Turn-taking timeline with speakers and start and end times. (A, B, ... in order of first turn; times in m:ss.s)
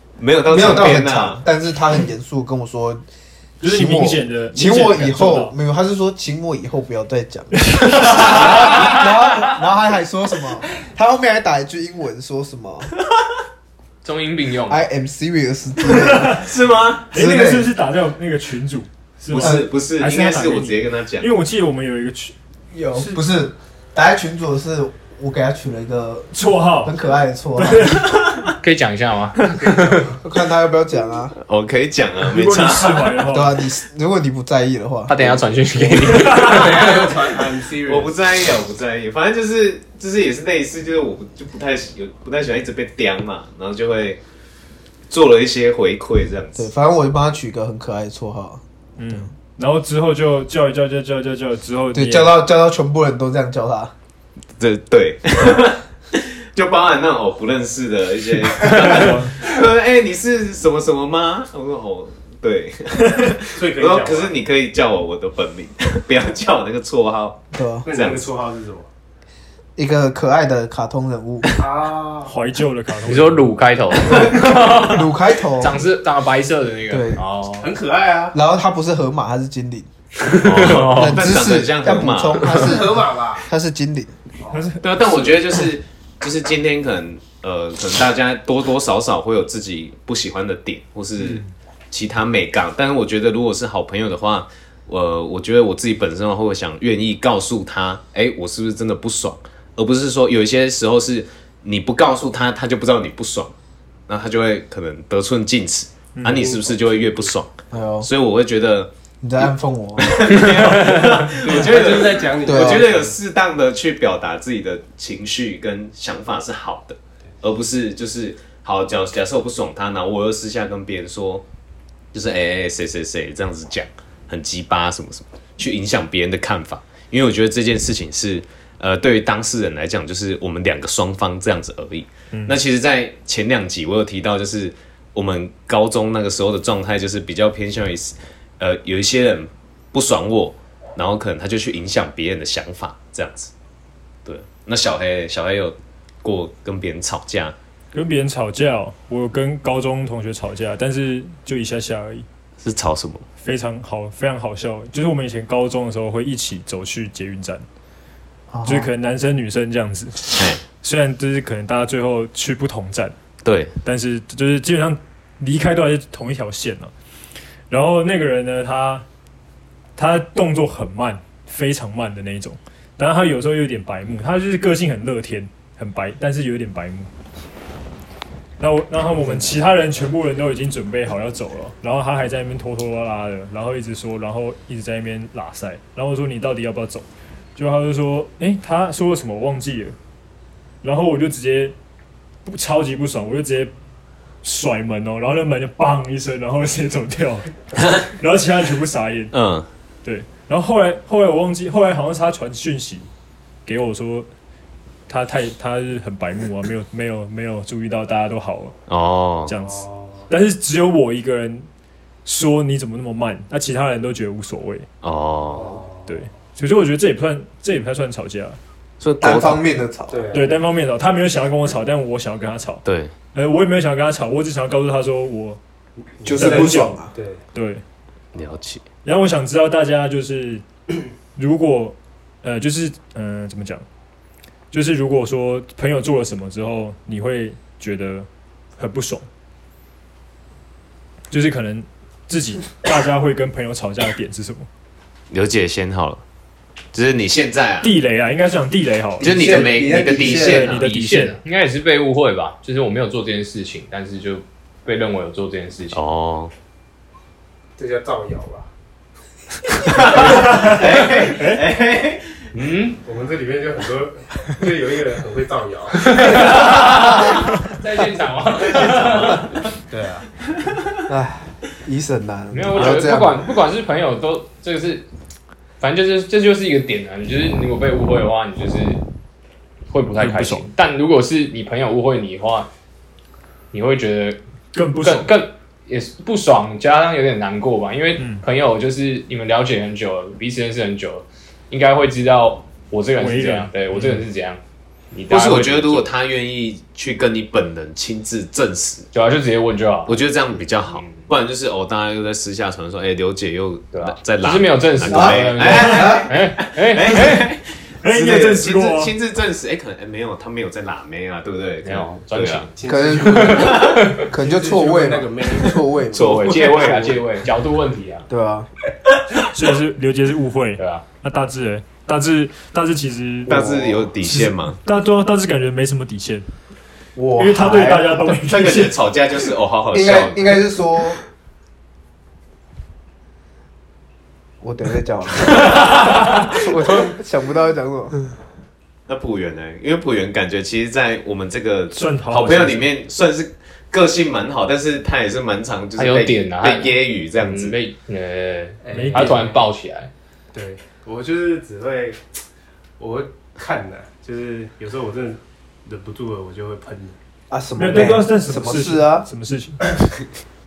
0:00.2-0:01.4 A
0:00.5-0:03.0 B
0:03.6-0:05.5 C
0:03.6-0:12.9 B
0:07.5-0:09.0 C
0:08.1-0:08.6 A
0:14.0-0:14.8 D
0:14.7-0:16.5 B
0:15.9-0:16.5 C
0:16.3-0:17.1 A
0:17.1-0:22.4 C
0:17.1-0:17.7 B
0:19.3-0:21.3 A
0:19.4-0:19.7 B
0:22.7-0:26.3 B
0:26.3-0:27.0 C
0:26.8-0:28.0 B
0:27.6-0:28.2 C
0:28.0-0:28.6 A
0:28.6-0:30.1 D
0:29.6-0:30.2 E
0:30.2-0:31.3 B
0:31.4-0:33.3 A
0:32.2-0:33.6 C
0:33.3-0:36.2 B
0:35.1-0:37.2 D
0:36.3-0:38.1 E
0:37.9-0:44.2 A
0:45.1-0:46.7 A
0:46.6-0:48.6 B
0:49.0-0:52.3 C
0:51.9-0:53.9 B
0:54.6-1:08.3 A
0:58.6-0:59.4 C
1:03.5-1:04.4 E
1:07.5-1:07.9 B
1:07.8-1:08.9 E
1:09.8-1:11.5 B
1:11.5-1:12.4 E
1:12.2-1:13.5 C
1:13.0-1:17.7 D
1:14.2-1:15.8 B
1:16.9-1:17.2 B
1:17.6-1:18.4 E
1:18.3-1:19.9 B
1:20.3-1:21.2 D
1:20.4-1:22.6 A
1:20.6-1:24.2 B
1:22.4-1:23.5 E
1:24.4-1:24.7 E
1:24.5-1:25.3 C
1:24.8-1:43.5 A
1:44.1-1:48.9 A
1:46.1-1:46.5 C
1:46.3-1:47.3 E
1:47.7-1:48.1 B
1:49.2-1:50.5 B
1:50.0-2:01.4 A
1:51.0-1:53.1 E
1:52.4-1:52.8 B
2:02.1-2:23.5 A
2:12.3-2:12.6 C
2:24.2-2:27.5 A
2:27.9-2:32.2 C
2:32.6-2:33.2 A
2:33.4-2:37.6 C
2:38.5-2:38.9 B
2:38.6-2:43.1 C
2:40.4-2:40.6 A
2:43.4-2:43.7 A
2:43.8-2:46.9 C
2:47.7-2:49.0 C
2:50.0-2:57.1 C
2:58.6-3:09.9 C
3:10.8-3:11.8 C
3:12.4-3:13.7 C
3:14.4-3:19.3 C
3:19.3-3:19.7 A
3:20.0-3:23.1 C
3:23.6-3:24.3 C
3:25.1-3:28.8 C
3:28.9-3:29.5 A
3:29.5-3:31.7 C
3:29.6-3:30.3 E
3:32.2-3:34.9 C
3:35.0-3:35.8 A
3:35.5-3:36.2 E
3:36.1-3:38.6 C
3:39.0-3:39.6 A
3:39.2-3:40.4 B
3:40.1-3:40.6 E
3:40.3-3:45.6 C
3:42.8-3:43.1 A
3:46.2-3:47.4 E
3:46.2-3:47.1 B
3:46.3-3:47.8 C
3:48.4-3:48.8 A
3:49.0-3:50.6 C
3:51.4-3:53.8 C
3:54.7-3:59.3 C
4:01.3-4:04.7 C
4:05.3-4:06.2 A
4:06.9-4:07.9 A
4:07.8-4:11.4 C
4:09.2-4:10.8 B
4:09.2-4:11.3 A
4:10.7-4:16.0 D
4:15.9-4:16.5 A
4:17.8-4:18.7 E
4:19.8-4:22.4 A
4:20.0-4:20.4 E
4:20.2-4:21.6 C
4:22.5-4:23.0 D
4:23.0-4:26.7 E
4:26.0-4:29.5 D
4:29.9-4:30.2 E
4:31.1-4:33.5 B
4:32.5-4:35.1 D
4:35.8-4:39.0 D
4:39.9-4:42.7 D
4:40.2-4:40.7 C
4:43.7-4:44.4 D
4:44.7-4:45.3 C
4:45.0-4:54.6 D
4:48.2-4:48.4 C
4:53.2-4:54.2 C
4:55.1-4:56.1 D
4:55.3-4:59.1 A
4:59.1-5:00.2 D
5:00.1-5:12.7 A
5:00.9-5:01.3 D
5:03.9-5:07.4 D
5:05.1-5:06.3 B
5:08.0-5:09.1 C
5:11.8-5:12.7 D
5:12.7-5:17.0 E
5:12.8-5:17.1 B
5:13.2-5:14.3 D
5:16.1-5:18.2 D
5:18.3-5:18.7 B
5:19.4-5:26.5 C
5:20.8-5:21.0 D
5:23.4-5:24.8 A
5:23.5-5:24.0 B
5:27.2-5:28.4 B
5:27.4-5:29.0 C
5:28.4-5:30.4 A
5:29.9-5:31.2 B
5:34.6-5:38.2 B
5:39.1-5:47.8 A
5:41.9-5:42.9 C
5:46.0-5:50.1 D
5:48.8-5:49.6 E
5:48.9-5:49.5 C
5:50.5-5:52.2 E
5:53.0-5:57.2 E
5:57.5-5:59.3 B
5:57.8-5:59.9 C